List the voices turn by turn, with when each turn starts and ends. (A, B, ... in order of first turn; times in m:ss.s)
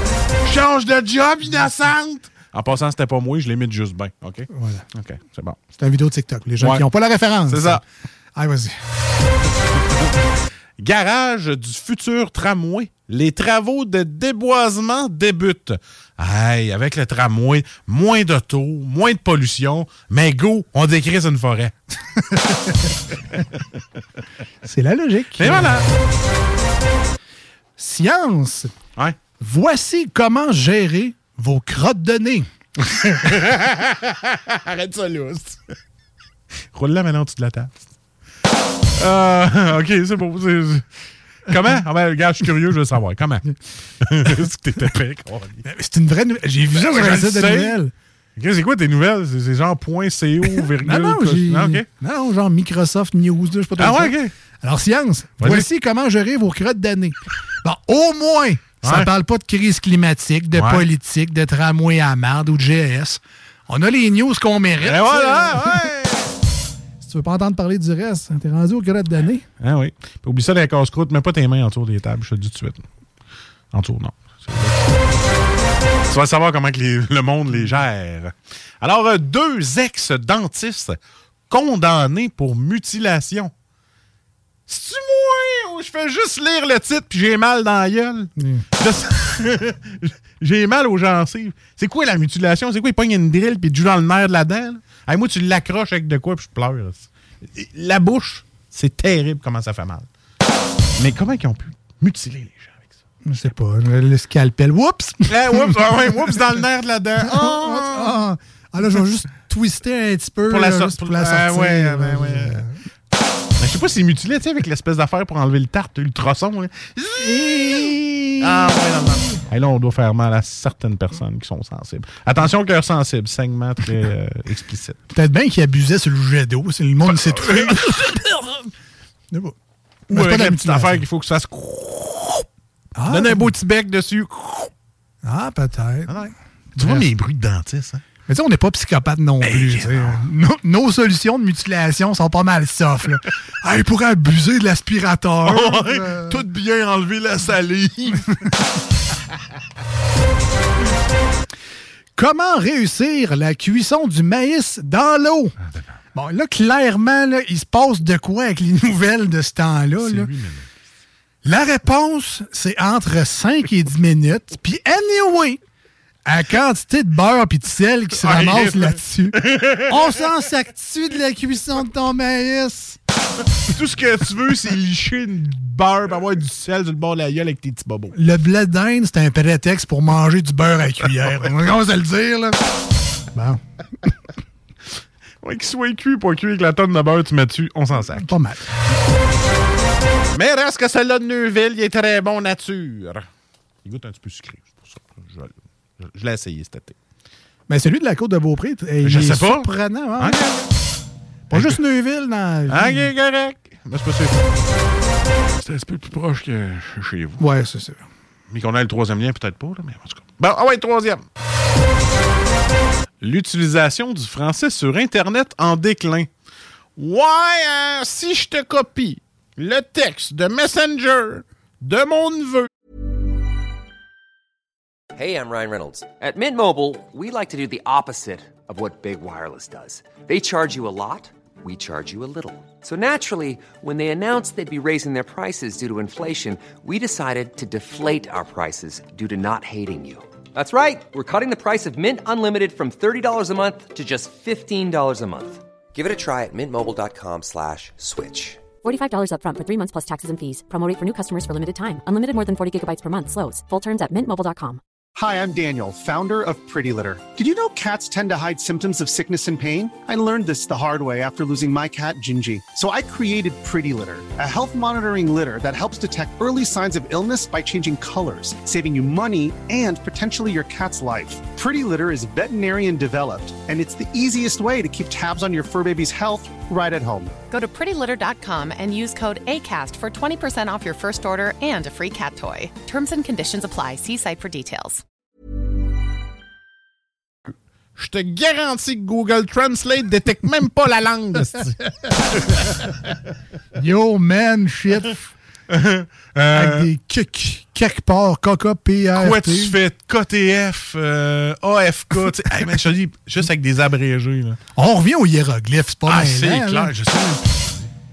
0:00.4-0:05.6 A
0:04.5-0:04.8 B
0:05.8-0:07.8 B
0:06.6-0:06.8 A
0:07.4-0:07.8 A
0:08.3-0:08.7 B
0:10.8-0:21.7 A
0:22.3-0:22.8 B
0:24.6-0:26.1 B
0:25.4-0:25.9 A
0:27.8-0:28.7 B
0:29.4-0:32.5 B
0:32.9-0:35.6 A
0:36.7-0:37.8 A
0:39.0-0:40.8 A
0:41.4-0:45.6 A
0:45.6-0:47.9 B
0:46.7-0:47.8 A
0:48.4-0:51.9 A
0:50.4-1:05.9 B
0:53.8-0:54.3 A
0:55.4-0:55.7 A
0:58.8-0:59.1 A
1:00.5-1:00.9 A
1:04.8-1:06.4 A
1:07.0-1:09.4 B
1:09.6-1:12.8 A
1:13.7-1:14.8 A
1:16.1-1:21.0 A
1:21.5-1:23.5 A
1:24.7-1:40.1 A
1:28.4-1:28.6 B
1:40.9-1:42.8 A
1:43.2-1:46.6 B
1:45.3-1:48.2 A
1:47.2-1:52.8 B
1:50.5-1:52.6 A
1:53.6-2:05.0 A
1:57.2-1:58.7 B
2:05.1-2:08.1 B
2:07.0-2:08.7 A
2:10.1-2:11.0 B
2:10.1-2:12.4 A
2:12.9-2:13.5 B
2:13.1-2:14.7 A
2:15.2-2:17.1 B
2:16.1-2:18.0 A
2:18.3-2:26.4 B
2:19.4-2:20.2 A
2:25.4-2:28.6 A
2:32.2-2:35.5 B
2:36.1-2:40.3 B
2:40.0-2:40.7 A
2:41.4-2:45.6 B
2:46.2-2:53.0 B
2:48.2-2:50.2 A
2:53.5-2:58.2 A
2:58.1-3:02.6 B
3:03.3-3:03.6 B
3:05.4-3:08.3 A
3:08.1-3:08.7 B
3:10.3-3:13.2 A
3:13.8-3:17.0 A
3:17.7-3:20.4 B
3:19.0-3:20.7 A
3:21.5-3:21.8 A
3:21.5-3:23.1 B
3:22.7-3:24.4 A
3:25.5-3:27.4 A
3:27.4-3:28.0 B
3:28.5-3:31.2 A
3:33.2-3:36.3 A
3:37.0-3:42.7 A
3:45.2-4:08.6 C
3:51.1-3:54.4 D
3:57.2-4:00.2 D
4:08.7-4:14.8 D
4:15.2-4:37.3 E
4:37.5-4:45.0 F
4:48.0-4:51.8 A
4:52.3-4:52.7 A
4:53.7-4:55.2 B
4:55.7-4:56.9 A
4:56.5-4:59.8 B
4:59.2-5:04.6 A
5:04.7-5:06.9 B
5:06.1-5:07.9 A